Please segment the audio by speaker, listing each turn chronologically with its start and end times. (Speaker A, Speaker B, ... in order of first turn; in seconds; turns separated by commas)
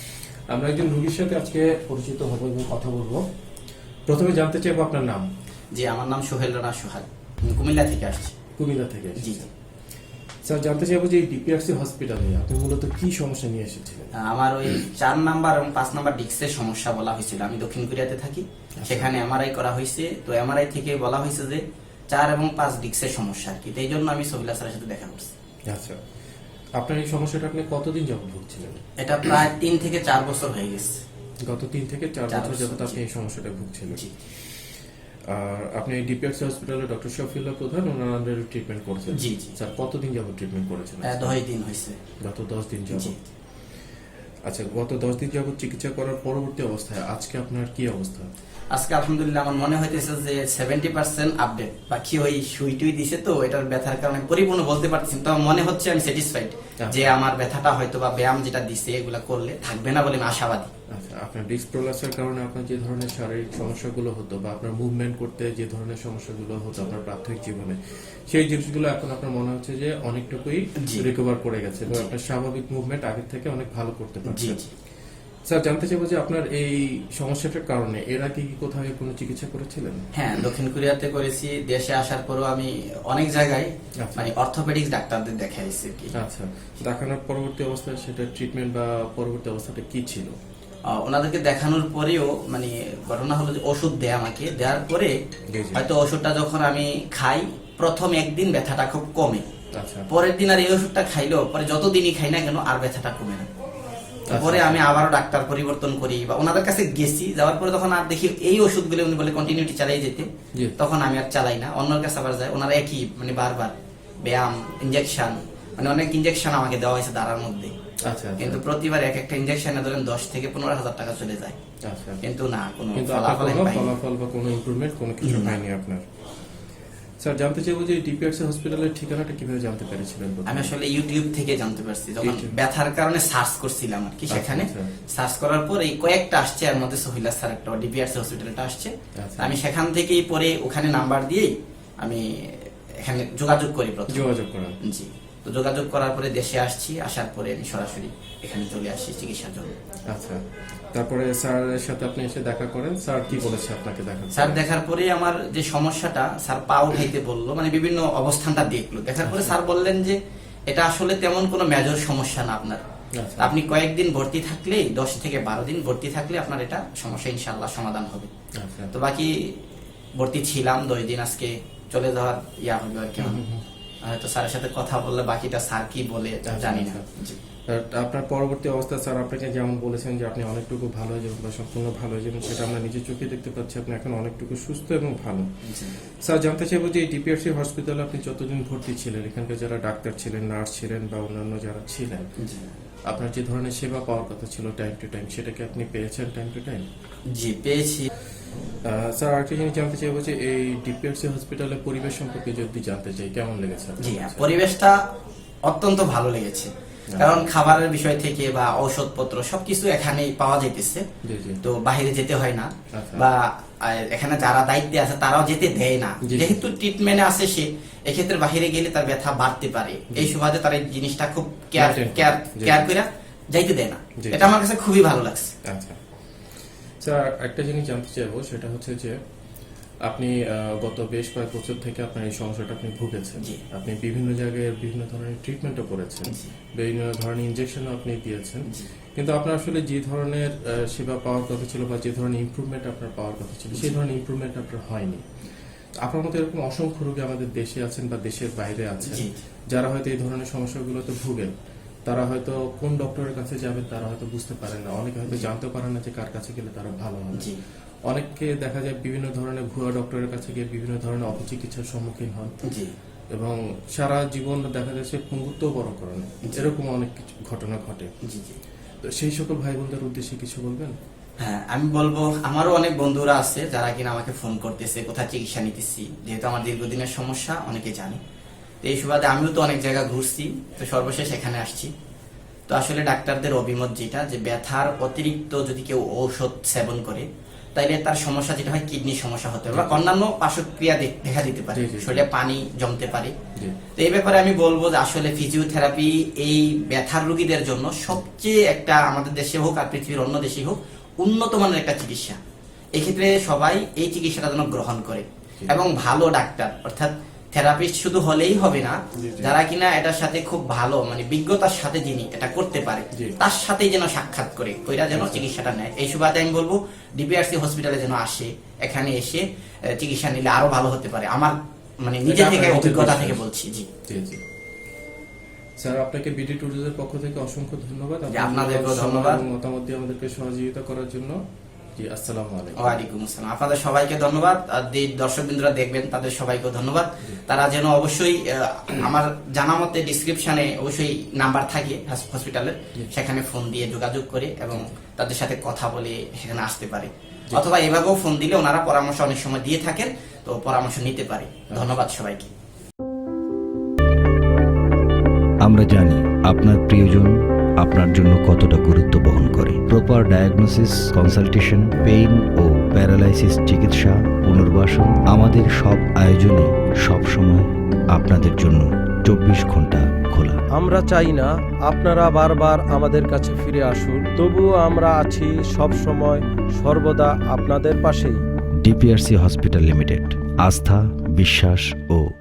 Speaker A: 0.5-3.2, Speaker A: 4.1-5.2, Speaker B: 5.7-8.4, Speaker A: 8.6-9.5, Speaker B: 9.2-9.4, Speaker A: 10.4-14.1, Speaker B: 14.2-25.3, Speaker A: 18.8-19.1, Speaker A: 25.7-25.9, Speaker A: 26.8-28.8, Speaker B: 29.0-31.0, Speaker A: 31.4-34.0, Speaker B: 32.3-33.0, Speaker A: 35.3-41.4, Speaker B: 39.1-39.5, Speaker B: 41.0-42.0, Speaker A: 42.2-43.1, Speaker B: 42.9-43.1, Speaker A: 44.5-48.3, Speaker B: 48.7-60.7, Speaker A: 56.8-57.1, Speaker A: 60.9-67.8, Speaker A: 68.3-74.6, Speaker B: 70.8-71.1, Speaker B: 74.2-74.7, Speaker A: 75.5-80.0, Speaker B: 80.1-86.1, Speaker A: 84.0-84.3, Speaker A: 86.1-90.3, Speaker B: 90.9-95.1, Speaker A: 95.5-95.8, Speaker B: 95.7-99.4, Speaker A: 99.7-100.1, Speaker B: 100.1-103.5, Speaker A: 104.3-104.9, Speaker B: 104.3-113.7, Speaker B: 114.2-117.7, Speaker A: 118.1-118.6, Speaker B: 118.4-121.6, Speaker A: 121.8-122.2, Speaker B: 122.2-123.9, Speaker A: 122.9-126.0, Speaker B: 125.2-125.6, Speaker A: 127.2-130.7, Speaker B: 130.4-144.2, Speaker A: 132.2-132.5, Speaker A: 134.3-134.9, Speaker A: 139.2-139.6, Speaker A: 144.1-144.8, Speaker B: 144.8-149.7, Speaker A: 150.1-150.4, Speaker A: 150.9-154.6, Speaker B: 154.3-160.2, Speaker A: 159.2-159.5, Speaker B: 160.7-162.8, Speaker A: 163.1-163.6, Speaker B: 163.4-168.3, Speaker A: 168.5-168.9, Speaker B: 168.9-169.5, Speaker B: 170.2-173.4, Speaker A: 173.2-173.6, Speaker B: 174.0-177.4, Speaker A: 176.4-177.1, Speaker A: 177.7-185.4, Speaker B: 185.6-185.9, Speaker A: 186.2-192.3, Speaker B: 192.4-192.7, Speaker A: 193.1-196.8, Speaker B: 197.3-198.1, Speaker A: 198.8-204.5, Speaker B: 204.0-205.0, Speaker B: 205.7-211.0, Speaker A: 207.1-207.7, Speaker A: 211.2-211.6, Speaker B: 211.6-225.5, Speaker A: 212.9-213.2, Speaker A: 216.2-216.6, Speaker A: 221.7-222.9, Speaker A: 224.2-224.5, Speaker A: 225.6-226.0, Speaker A: 227.0-229.1, Speaker A: 230.1-238.7, Speaker B: 236.3-236.5, Speaker A: 239.2-245.2, Speaker A: 246.0-251.5, Speaker B: 249.0-249.3, Speaker A: 252.1-257.5, Speaker B: 257.3-257.6, Speaker A: 258.1-262.5, Speaker B: 262.6-262.9, Speaker A: 263.3-268.1, Speaker B: 266.4-266.7, Speaker B: 268.2-268.6, Speaker A: 269.0-270.9, Speaker B: 271.4-278.2, Speaker B: 278.8-281.9, Speaker B: 282.7-293.3, Speaker A: 289.7-290.0, Speaker A: 291.7-292.2, Speaker B: 294.0-302.4, Speaker B: 302.9-319.4, Speaker A: 309.1-309.6, Speaker A: 315.1-315.5, Speaker B: 319.9-321.5, Speaker B: 322.0-323.9, Speaker A: 322.2-323.4, Speaker A: 324.1-324.4, Speaker A: 325.8-331.3, Speaker B: 328.3-329.4, Speaker A: 332.0-333.0, Speaker B: 332.8-352.5, Speaker A: 344.7-345.0, Speaker A: 351.7-352.0, Speaker C: 355.6-370.6, Speaker D: 370.7-378.4, Speaker C: 378.8-382.2